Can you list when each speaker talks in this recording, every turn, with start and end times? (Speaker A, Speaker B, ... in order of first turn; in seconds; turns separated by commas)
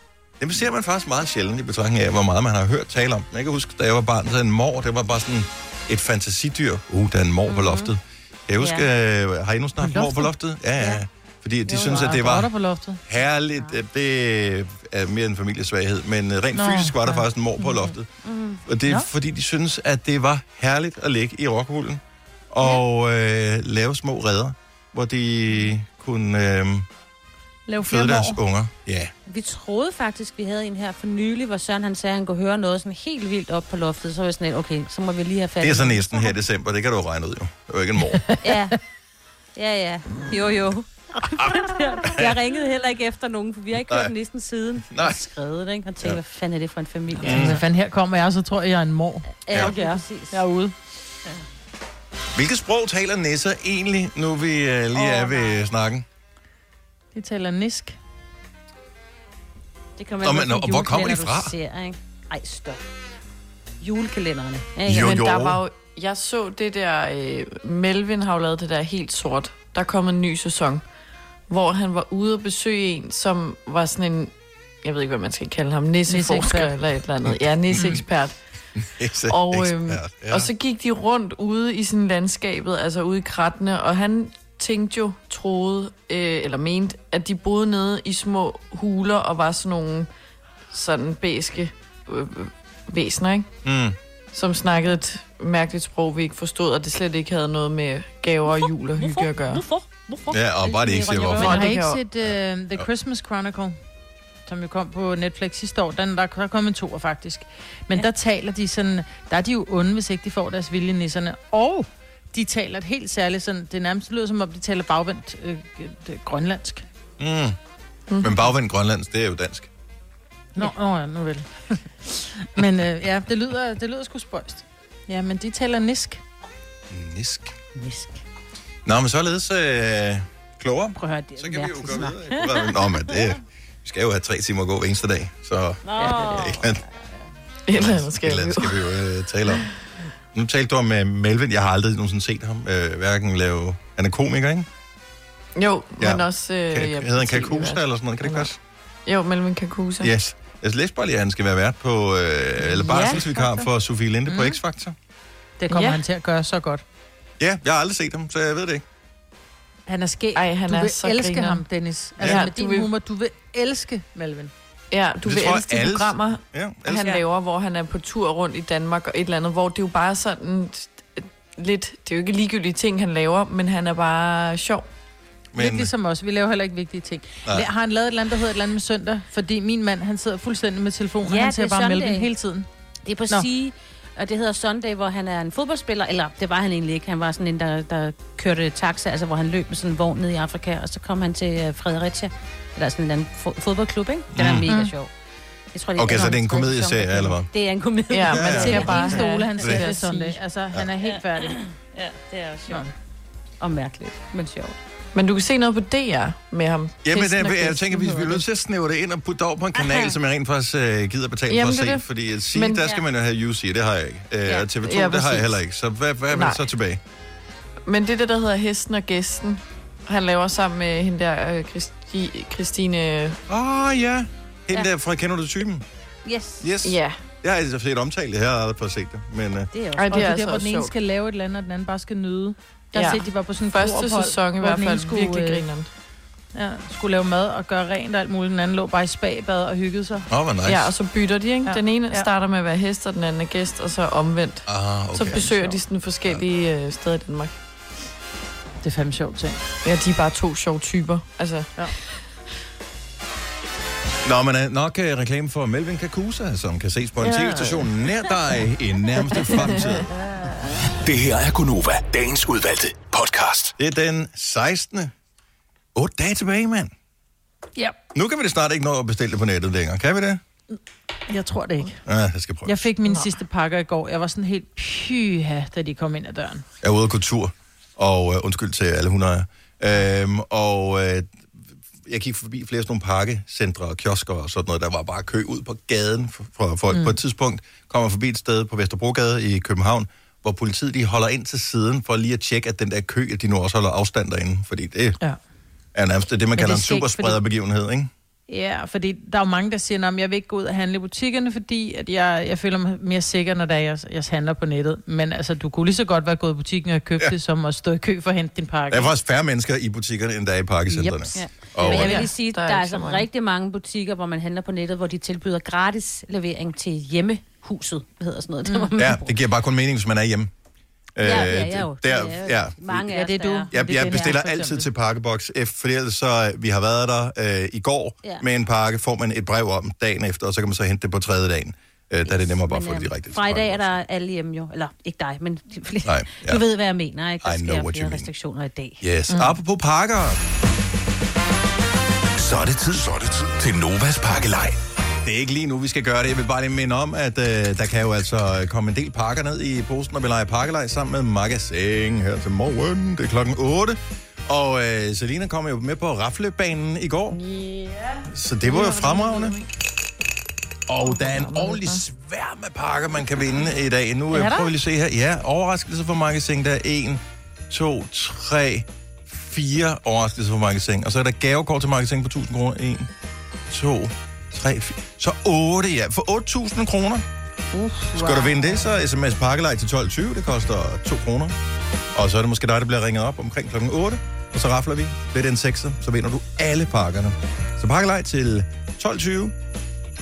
Speaker A: 0.4-12.5, Speaker B: 7.5-7.9, Speaker B: 8.6-8.9, Speaker C: 9.8-10.3, Speaker C: 11.7-13.0, Speaker A: 13.1-18.1, Speaker C: 16.5-17.9, Speaker B: 18.2-18.6, Speaker A: 18.6-26.9, Speaker C: 27.7-28.4, Speaker A: 27.8-29.1, Speaker B: 29.2-36.4, Speaker A: 35.6-38.2, Speaker C: 38.2-38.5, Speaker B: 38.4-38.8, Speaker B: 39.5-47.6, Speaker A: 41.4-42.4, Speaker A: 44.9-45.2, Speaker A: 47.2-47.6, Speaker C: 47.2-50.7, Speaker B: 49.4-50.4, Speaker A: 52.3-56.0, Speaker B: 54.9-55.6, Speaker C: 57.1-58.0, Speaker B: 60.0-62.8, Speaker A: 60.2-61.5, Speaker B: 63.8-65.1, Speaker A: 64.8-65.6, Speaker D: 64.9-70.8, Speaker D: 71.5-74.3, Speaker D: 74.8-78.3, Speaker C: 76.1-76.7, Speaker A: 77.2-78.0, Speaker A: 78.8-80.5, Speaker D: 79.3-90.1, Speaker D: 90.7-93.5, Speaker A: 93.6-94.0, Speaker D: 94.3-99.6, Speaker B: 98.6-101.7, Speaker A: 100.3-101.7, Speaker D: 101.4-102.0, Speaker C: 101.4-103.8, Speaker C: 104.5-116.8, Speaker A: 117.2-117.5, Speaker D: 118.1-118.4, Speaker A: 118.2-119.7, Speaker C: 120.5-126.2, Speaker A: 126.9-127.5, Speaker B: 127.8-128.2, Speaker A: 128.8-136.8, Speaker B: 131.0-133.3, Speaker B: 135.8-136.9, Speaker D: 137.7-138.8, Speaker A: 137.7-139.7, Speaker A: 140.3-144.7, Speaker D: 145.6-148.5, Speaker A: 146.0-148.6, Speaker D: 149.1-150.1, Speaker A: 150.0-154.9, Speaker C: 152.6-153.7, Speaker C: 154.3-154.6, Speaker C: 155.6-156.8, Speaker D: 155.7-156.0, Speaker A: 157.4-158.8, Speaker C: 159.9-164.5, Speaker D: 160.3-161.6, Speaker D: 162.2-162.9, Speaker D: 164.9-174.9, Speaker A: 165.2-167.1, Speaker A: 175.5-175.9, Speaker C: 175.6-182.7, Speaker B: 181.2-182.3, Speaker B: 183.1-195.1, Speaker A: 194.3-194.7, Speaker B: 195.7-199.2, Speaker A: 196.0-197.5, Speaker D: 198.1-200.4, Speaker A: 198.3-198.9, Speaker C: 198.4-201.6, Speaker B: 201.0-202.8, Speaker B: 203.6-204.8, Speaker D: 205.1-208.3, Speaker A: 207.0-217.0, Speaker B: 209.7-210.2, Speaker D: 211.5-212.9, Speaker D: 214.8-215.5, Speaker D: 216.3-216.6, Speaker D: 217.8-223.4, Speaker A: 223.5-225.8, Speaker B: 226.2-226.7, Speaker A: 226.6-229.7, Speaker D: 226.8-227.2, Speaker B: 229.7-230.2, Speaker D: 229.9-230.9, Speaker C: 230.1-235.6, Speaker D: 232.9-235.9, Speaker C: 236.5-240.3, Speaker A: 240.3-240.9, Speaker D: 240.6-247.5, Speaker C: 241.6-242.3, Speaker A: 244.7-245.5, Speaker C: 245.3-245.8, Speaker C: 248.8-249.6, Speaker D: 249.8-251.7, Speaker A: 254.2-260.1, Speaker D: 257.2-257.9, Speaker D: 259.4-259.9, Speaker E: 261.0-263.7, Speaker A: 263.8-265.1, Speaker A: 265.9-266.9, Speaker A: 268.1-270.4, Speaker C: 271.3-272.0, Speaker A: 272.1-272.9, Speaker C: 272.6-276.6, Speaker A: 276.8-281.4, Speaker A: 282.0-295.2, Speaker C: 286.9-287.2, Speaker A: 295.9-298.1, Speaker C: 296.6-297.4, Speaker C: 298.5-309.1, Speaker A: 308.9-312.2, Speaker B: 311.0-319.4, Speaker C: 311.9-312.3, Speaker D: 312.5-313.2, Speaker C: 318.6-318.9, Speaker A: 319.0-320.5, Speaker A: 321.1-323.1, Speaker B: 321.2-324.3, Speaker C: 323.1-324.9, Speaker A: 323.7-334.0, Speaker B: 332.2-339.0, Speaker A: 336.0-336.6, Speaker A: 337.4-338.3, Speaker A: 339.0-340.4, Speaker E: 342.4-344.8, Speaker A: 345.2-357.4, Speaker D: 357.3-359.7, Speaker A: 358.3-359.6, Speaker A: 360.9-373.1, Speaker D: 361.0-362.0, Speaker C: 364.3-364.7, Speaker A: 373.7-377.2, Speaker C: 377.7-378.7, Speaker A: 378.1-381.6, Speaker A: 382.1-389.5